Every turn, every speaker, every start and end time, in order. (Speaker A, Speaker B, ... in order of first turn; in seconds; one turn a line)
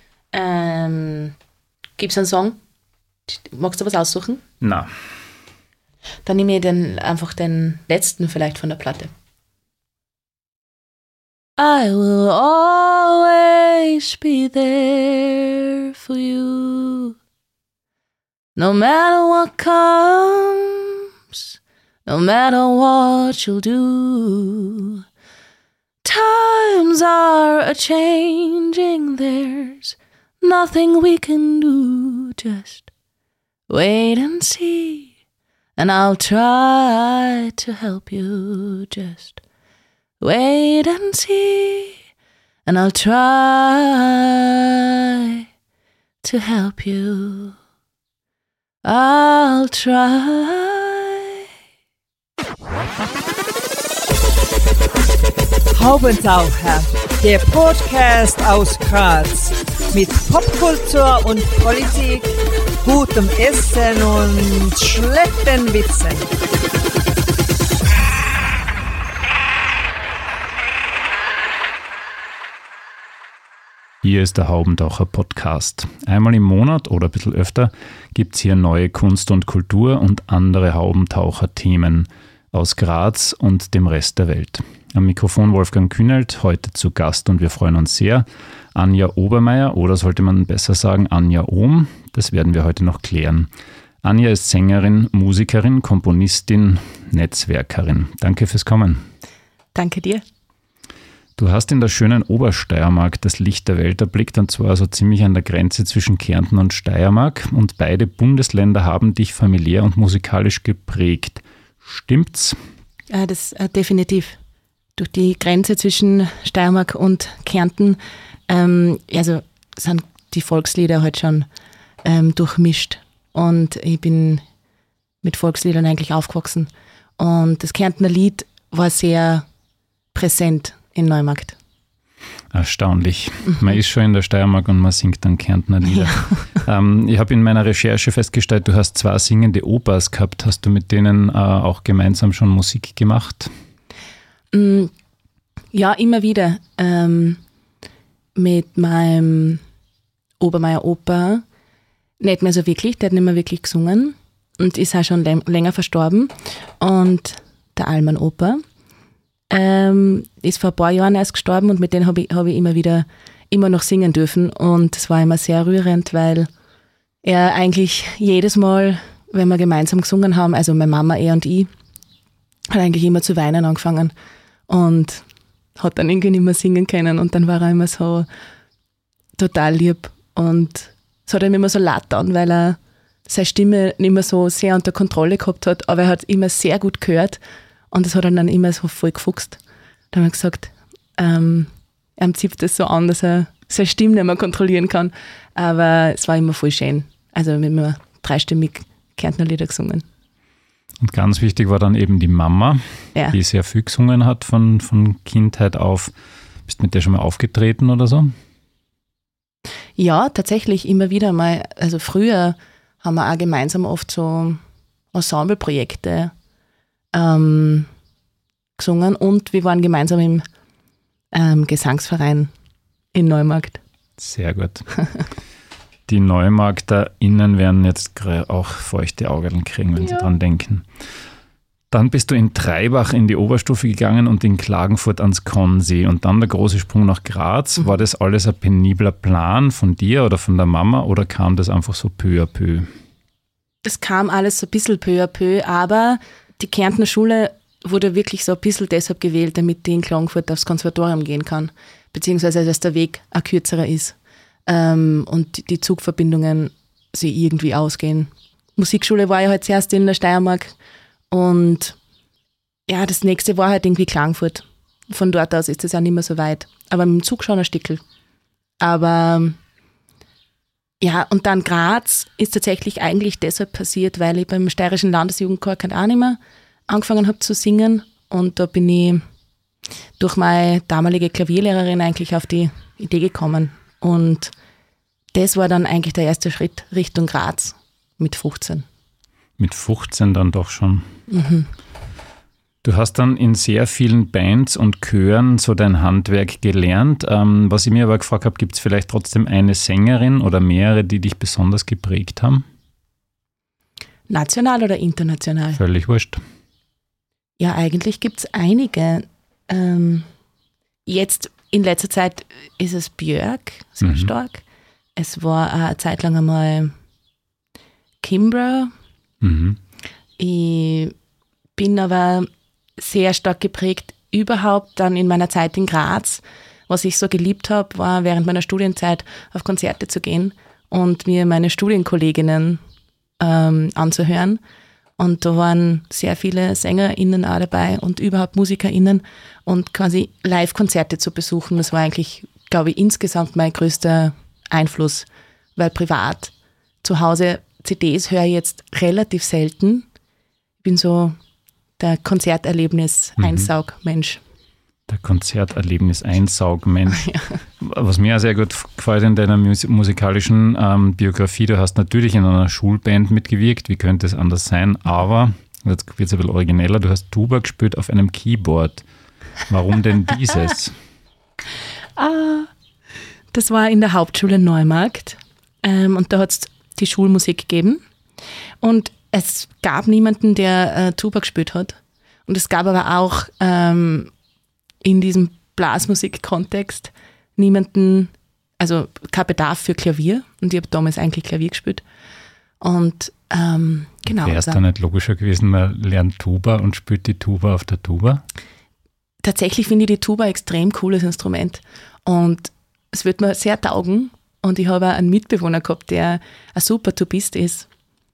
Speaker A: 0.3-1.3
Speaker A: 2.0-2.6
Speaker A: 3.3-4.4
Speaker B: 4.6-4.9
Speaker A: 6.2-9.1
Speaker A: 11.6-17.1
Speaker A: 18.6-25.0
Speaker A: 26.0-32.9
Speaker A: 33.7-35.1
Speaker A: 35.8-39.4
Speaker A: 40.2-42.0
Speaker A: 42.7-45.4
Speaker A: 46.2-47.5
Speaker A: 48.8-51.4
Speaker C: 55.7-66.2
Speaker B: 74.0-93.5
Speaker B: 94.0-99.0
Speaker A: 99.7-100.2
Speaker B: 101.4-112.6
Speaker A: 113.1-114.4
Speaker A: 115.0-121.5
Speaker A: 122.0-124.4
Speaker A: 125.2-129.4
Speaker A: 130.1-131.6
Speaker B: 132.5-143.5
Speaker A: 135.9-136.6
Speaker A: 144.5-144.9
Speaker A: 145.7-147.4
Speaker A: 148.3-149.6
Speaker A: 150.4-151.4
Speaker A: 152.2-158.6
Speaker A: 159.5-166.5
Speaker A: 167.2-171.7
Speaker A: 172.7-174.1
Speaker A: 174.7-175.2
Speaker A: 175.8-178.2
Speaker A: 179.4-187.4
Speaker A: 187.9-189.6
Speaker A: 190.1-200.0
Speaker B: 201.0-206.1
Speaker B: 206.7-208.3
Speaker A: 210.0-214.6
Speaker A: 215.1-216.3
Speaker A: 217.1-217.9
Speaker A: 218.8-220.4
Speaker A: 221.3-222.5
Speaker A: 223.1-223.8
Speaker B: 224.2-224.9
Speaker B: 226.1-230.8
Speaker B: 231.9-242.9
Speaker A: 243.8-254.1
Speaker A: 254.7-260.7
Speaker A: 261.3-261.9
Speaker A: 262.9-268.0
Speaker A: 268.8-269.6
Speaker A: 271.0-279.2
Speaker A: 280.2-284.5
Speaker A: 285.3-288.8
Speaker B: 289.6-291.1
Speaker A: 291.3-291.7
Speaker B: 292.8-302.6
Speaker A: 304.3-305.8
Speaker B: 305.8-306.4
Speaker A: 307.6-310.3
Speaker A: 311.1-314.6
Speaker B: 314.0-314.3
Speaker A: 315.2-316.9
Speaker A: 318.2-318.9
Speaker B: 319.4-319.8
Speaker A: 320.4-321.1
Speaker A: 321.8-332.8
Speaker A: 333.4-334.6
Speaker A: 335.2-346.5
Speaker A: 347.0-350.1
Speaker A: 350.8-351.4
Speaker A: 352.0-354.4
Speaker B: 353.4-353.7
Speaker B: 355.1-369.1
Speaker B: 369.7-370.9
Speaker A: 372.2-372.7
Speaker A: 373.5-378.0
Speaker A: 378.8-381.9
Speaker A: 382.5-384.3
Speaker A: 385.0-392.0
Speaker A: 392.8-394.8
Speaker B: 394.3-398.4
Speaker A: 399.4-407.9